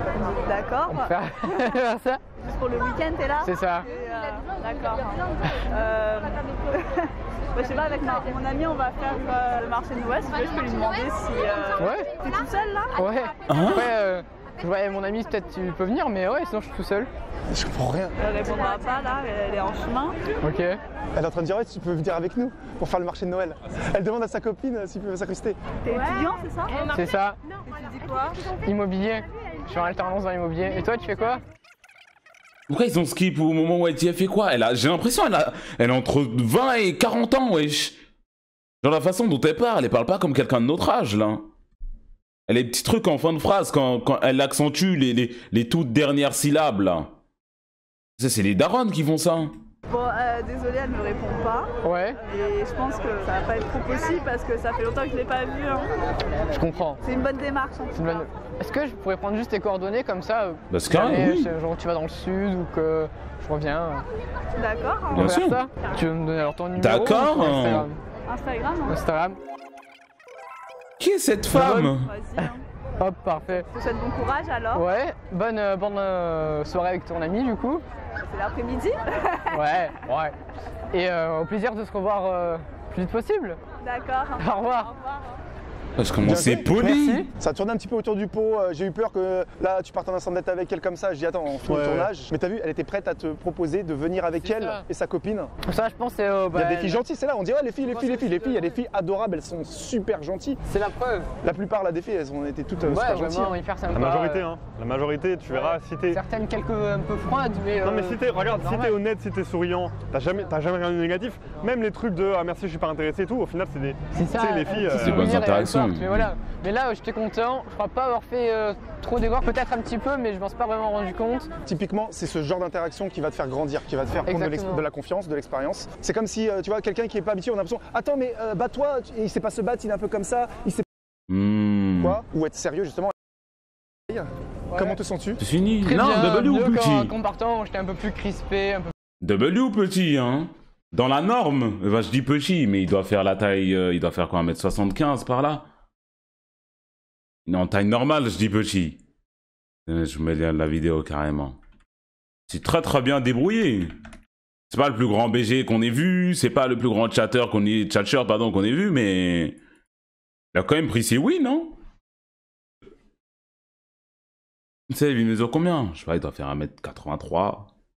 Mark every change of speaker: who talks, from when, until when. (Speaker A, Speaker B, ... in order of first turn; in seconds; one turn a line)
Speaker A: 0.1-1.8
Speaker B: 0.9-2.2
Speaker A: 2.4-13.0
Speaker B: 3.4-3.9
Speaker B: 11.8-12.1
Speaker B: 13.0-17.1
Speaker C: 13.5-13.9
Speaker D: 17.5-18.1
Speaker A: 18.2-20.2
Speaker B: 20.4-20.8
Speaker D: 21.1-25.6
Speaker A: 25.9-26.8
Speaker B: 26.7-27.4
Speaker A: 27.7-28.4
Speaker B: 28.6-31.4
Speaker C: 32.7-38.0
Speaker C: 38.8-41.5
Speaker C: 42.5-47.1
Speaker C: 48.2-49.6
Speaker A: 49.9-55.9
Speaker B: 51.8-52.2
Speaker B: 56.5-57.0
Speaker A: 57.0-58.1
Speaker B: 57.9-64.1
Speaker C: 60.7-61.5
Speaker A: 64.6-65.3
Speaker C: 65.1-65.6
Speaker B: 65.1-68.0
Speaker C: 66.8-67.9
Speaker A: 68.3-69.0
Speaker B: 68.9-69.4
Speaker C: 71.0-72.1
Speaker B: 71.5-73.7
Speaker A: 71.9-72.6
Speaker A: 73.6-74.8
Speaker B: 74.7-77.8
Speaker A: 78.2-79.6
Speaker B: 79.5-80.4
Speaker B: 80.9-83.6
Speaker A: 83.8-85.2
Speaker B: 84.4-84.9
Speaker C: 86.0-87.3
Speaker D: 86.2-86.7
Speaker B: 86.7-87.3
Speaker D: 87.4-95.5
Speaker E: 91.7-92.1
Speaker B: 94.4-94.8
Speaker B: 95.7-97.0
Speaker D: 96.5-100.6
Speaker B: 97.9-98.8
Speaker B: 100.7-101.3
Speaker D: 101.4-103.5
Speaker B: 102.8-104.5
Speaker E: 103.9-106.2
Speaker B: 105.5-108.9
Speaker E: 107.8-115.3
Speaker B: 114.1-121.5
Speaker C: 114.9-116.3
Speaker D: 121.7-130.9
Speaker B: 124.3-124.8
Speaker C: 131.3-132.2
Speaker D: 132.0-133.1
Speaker D: 134.1-135.4
Speaker B: 134.7-135.0
Speaker C: 135.4-137.1
Speaker B: 135.8-138.9
Speaker C: 139.2-145.7
Speaker C: 147.5-149.0
Speaker C: 149.9-151.6
Speaker C: 152.5-153.9
Speaker C: 154.7-159.6
Speaker C: 160.5-161.8
Speaker C: 164.9-167.7